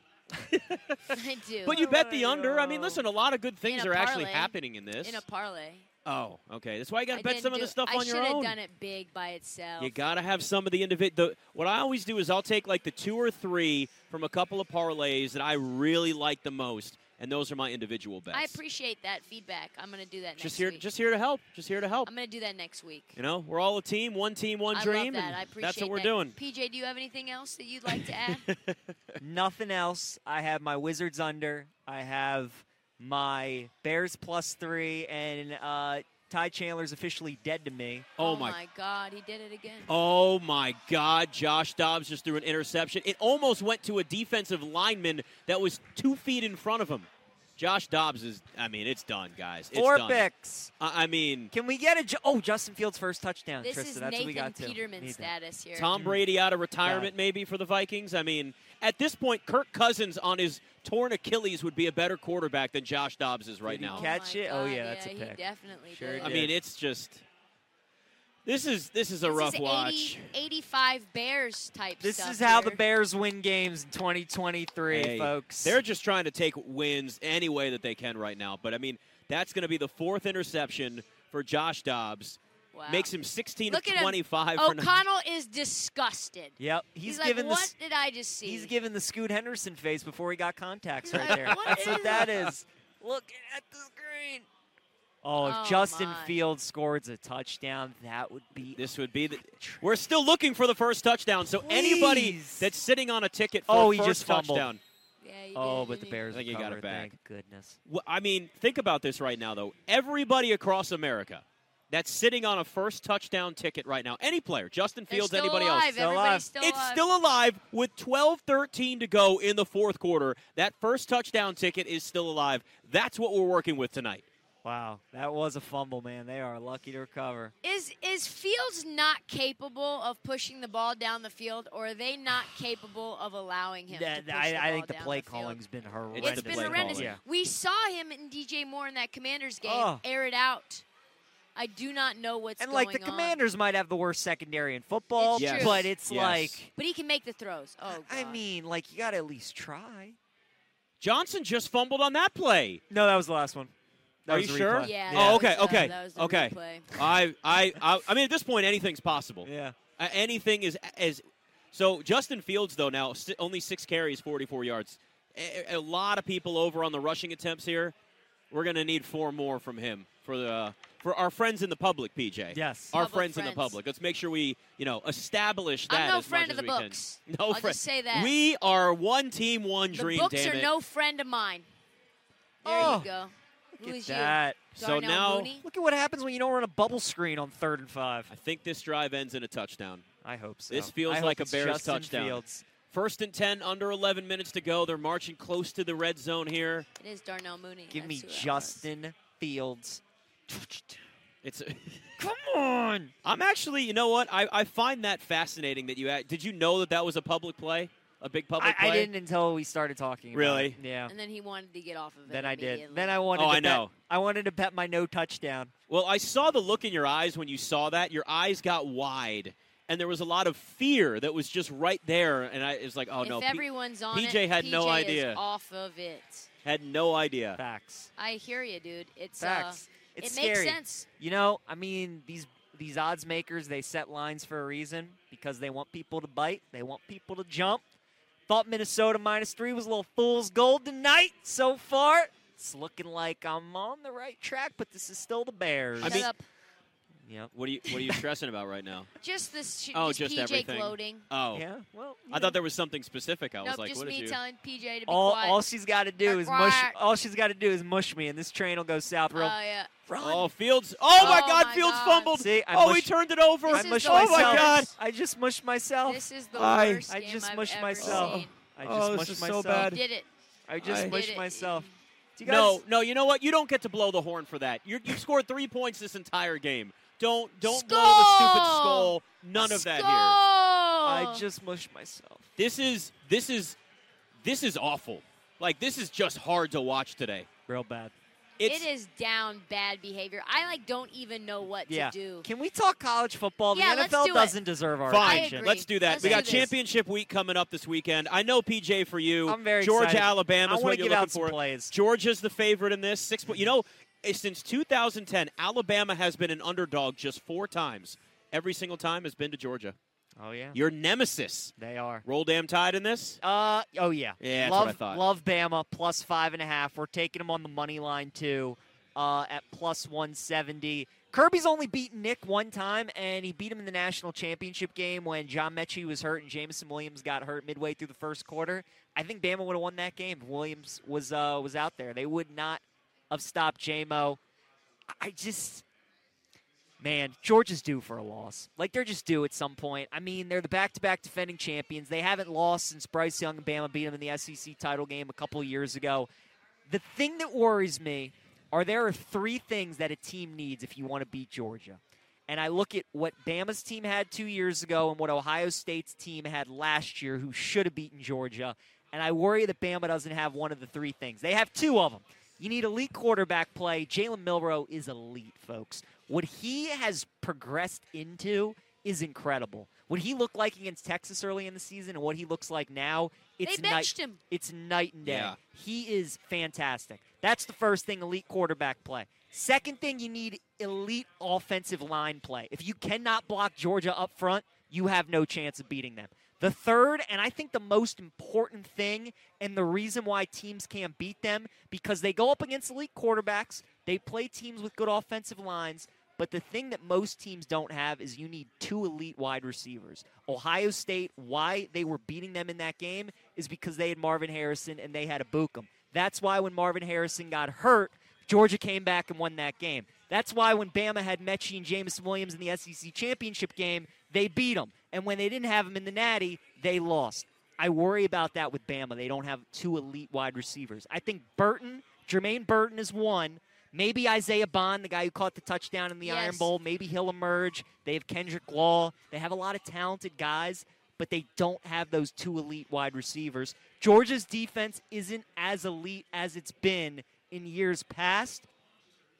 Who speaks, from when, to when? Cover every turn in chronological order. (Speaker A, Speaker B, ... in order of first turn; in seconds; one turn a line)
Speaker A: 0.4-1.1
Speaker B: 1.1-3.0
Speaker A: 1.6-5.2
Speaker B: 3.6-5.9
Speaker A: 6.0-8.6
Speaker B: 7.1-10.0
Speaker A: 9.8-18.6
Speaker B: 18.3-20.8
Speaker A: 20.4-22.1
Speaker B: 22.0-23.2
Speaker A: 23.1-26.4
Speaker B: 24.7-28.4
Speaker A: 27.9-28.8
Speaker C: 29.2-38.1
Speaker A: 38.2-38.6
Speaker B: 38.2-39.9
Speaker A: 39.9-50.2
Speaker C: 49.7-50.7
Speaker A: 50.8-51.5
Speaker C: 51.5-55.3
Speaker B: 53.6-55.9
Speaker A: 55.7-64.1
Speaker C: 55.9-56.2
Speaker C: 56.8-57.1
Speaker C: 63.6-66.5
Speaker B: 63.8-66.4
Speaker A: 66.2-67.2
Speaker A: 68.4-70.3
Speaker B: 69.2-72.8
Speaker C: 72.0-75.8
Speaker A: 74.9-85.0
Speaker B: 82.7-83.1
Speaker B: 83.7-88.7
Speaker C: 86.6-87.7
Speaker C: 88.4-94.5
Speaker B: 91.1-92.5
Speaker A: 91.2-92.5
Speaker C: 95.2-99.8
Speaker B: 95.4-96.4
Speaker A: 98.6-104.8
Speaker C: 101.6-102.7
Speaker C: 103.7-104.7
Speaker B: 105.2-106.2
Speaker C: 105.5-107.8
Speaker A: 106.3-107.1
Speaker A: 107.9-116.0
Speaker B: 115.1-117.0
Speaker C: 116.0-116.5
Speaker A: 116.6-124.2
Speaker C: 124.6-127.5
Speaker B: 127.6-140.8
Speaker C: 133.9-137.2
Speaker A: 136.1-137.1
Speaker C: 139.6-140.0
Speaker B: 141.5-143.4
Speaker C: 142.6-146.7
Speaker B: 145.2-145.9
Speaker A: 145.3-146.6
Speaker B: 146.7-148.4
Speaker C: 147.9-150.2
Speaker A: 151.0-152.8
Speaker C: 152.9-153.7
Speaker A: 154.3-167.9
Speaker C: 154.3-155.8
Speaker B: 154.8-156.9
Speaker C: 159.4-159.8
Speaker A: 168.5-180.7
Speaker C: 172.5-172.9
Speaker B: 172.9-173.8
Speaker B: 175.9-178.3
Speaker B: 179.9-181.7
Speaker C: 182.6-183.1
Speaker B: 182.6-185.6
Speaker C: 183.8-184.6
Speaker A: 184.8-185.5
Speaker C: 185.6-188.3
Speaker A: 188.3-190.0
Speaker C: 190.2-192.7
Speaker A: 190.7-196.9
Speaker B: 197.0-198.8
Speaker C: 197.9-201.0
Speaker A: 201.4-202.1
Speaker C: 202.2-203.1
Speaker A: 203.2-209.1
Speaker C: 208.6-211.1
Speaker A: 210.3-210.8
Speaker B: 211.1-213.2
Speaker C: 212.2-215.7
Speaker A: 213.3-213.9
Speaker A: 215.9-225.4
Speaker B: 223.2-226.5
Speaker A: 226.6-227.6
Speaker C: 227.6-228.1
Speaker B: 228.2-231.1
Speaker C: 229.4-237.8
Speaker C: 238.5-246.3
Speaker A: 246.0-246.3
Speaker B: 246.0-246.4
Speaker C: 247.2-248.2
Speaker A: 247.5-249.1
Speaker B: 249.2-251.2
Speaker A: 249.9-251.6
Speaker C: 251.5-252.6
Speaker A: 252.3-254.4
Speaker B: 253.6-255.6
Speaker C: 255.1-259.5
Speaker B: 256.2-257.0
Speaker B: 259.3-259.9
Speaker C: 260.1-260.5
Speaker A: 260.2-264.9
Speaker B: 261.1-262.3
Speaker C: 262.3-263.1
Speaker B: 263.7-264.9
Speaker C: 263.7-266.3
Speaker B: 266.0-268.5
Speaker A: 266.5-267.1
Speaker C: 267.1-269.9
Speaker A: 268.0-270.0
Speaker B: 269.7-270.3
Speaker C: 270.7-272.8
Speaker A: 270.8-271.2
Speaker B: 271.0-272.0
Speaker A: 272.4-280.4
Speaker B: 277.6-281.4
Speaker C: 281.0-282.5
Speaker A: 282.6-283.8
Speaker A: 284.4-287.5
Speaker C: 287.7-288.1
Speaker A: 288.6-288.9
Speaker B: 288.6-292.5
Speaker C: 291.9-296.7
Speaker B: 293.7-294.6
Speaker A: 295.1-309.9
Speaker B: 295.2-296.7
Speaker C: 299.4-301.9
Speaker C: 310.4-310.8
Speaker A: 310.7-311.7
Speaker C: 311.8-312.2
Speaker A: 312.2-313.4
Speaker C: 313.4-334.4
Speaker A: 314.4-315.2
Speaker C: 335.1-335.8
Speaker C: 337.0-346.3
Speaker C: 346.9-438.7
Speaker B: 373.6-374.4
Speaker A: 375.2-375.6
Speaker B: 426.2-426.7